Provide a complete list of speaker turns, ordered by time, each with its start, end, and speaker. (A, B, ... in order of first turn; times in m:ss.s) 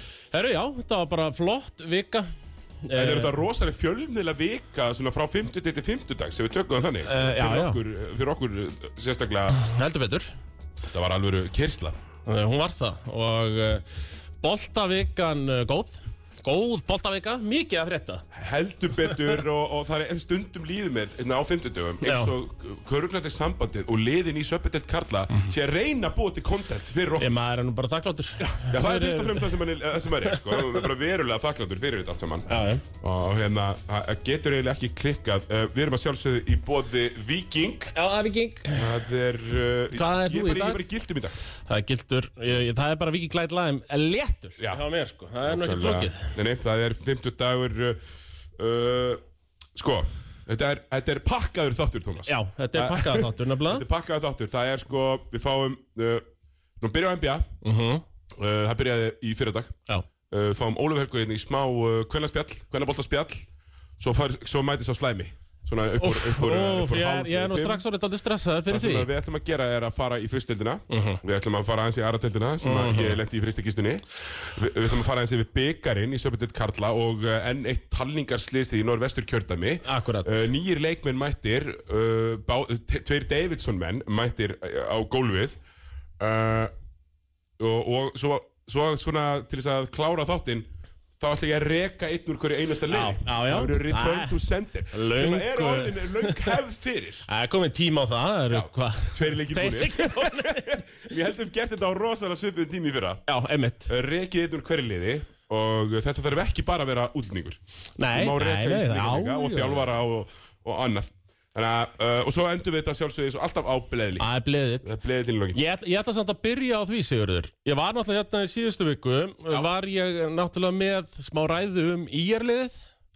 0:00.3-0:02.3 A
0:02.8-0:03.4 A
0:02.9-0:09.6 B
0:07.0-0:07.8 A
0:09.5-0:10.3 A
0:10.9-0:12.0 B
0:12.2-0:13.8 A
0:14.4-0:18.2 A
0:18.3-0:27.4 B
0:22.0-0:22.3 A
0:27.2-0:29.6 A
0:28.4-0:37.9 B
0:30.3-0:30.8 A
0:32.5-0:32.8 A
0:37.9-0:38.9 A
0:38.7-0:41.3 B
0:39.9-0:40.8 A
0:41.6-0:46.3 A
0:45.4-0:48.0 B
0:48.6-0:49.2 B
0:49.7-0:56.2 B
0:52.2-0:53.8 A
0:56.8-0:57.5 B
0:57.6-0:58.0 A
0:58.3-0:59.7 B
1:00.3-1:03.5 B
1:04.0-1:07.8 B
1:06.0-1:09.1 A
1:08.7-1:25.6 B
1:10.9-1:11.2 A
1:12.6-1:13.2 A
1:19.8-1:20.5 A
1:26.2-1:26.7 B
1:27.6-1:37.2 B
1:32.9-1:34.4 A
1:34.9-1:36.6 A
1:37.3-1:40.8 A
1:38.5-1:43.2 B
1:43.3-1:43.9 A
1:43.9-1:47.6 B
1:48.0-1:49.9 A
1:48.1-1:54.3 B
1:54.2-1:55.0 A
1:54.8-1:55.6 B
1:55.5-2:02.8 A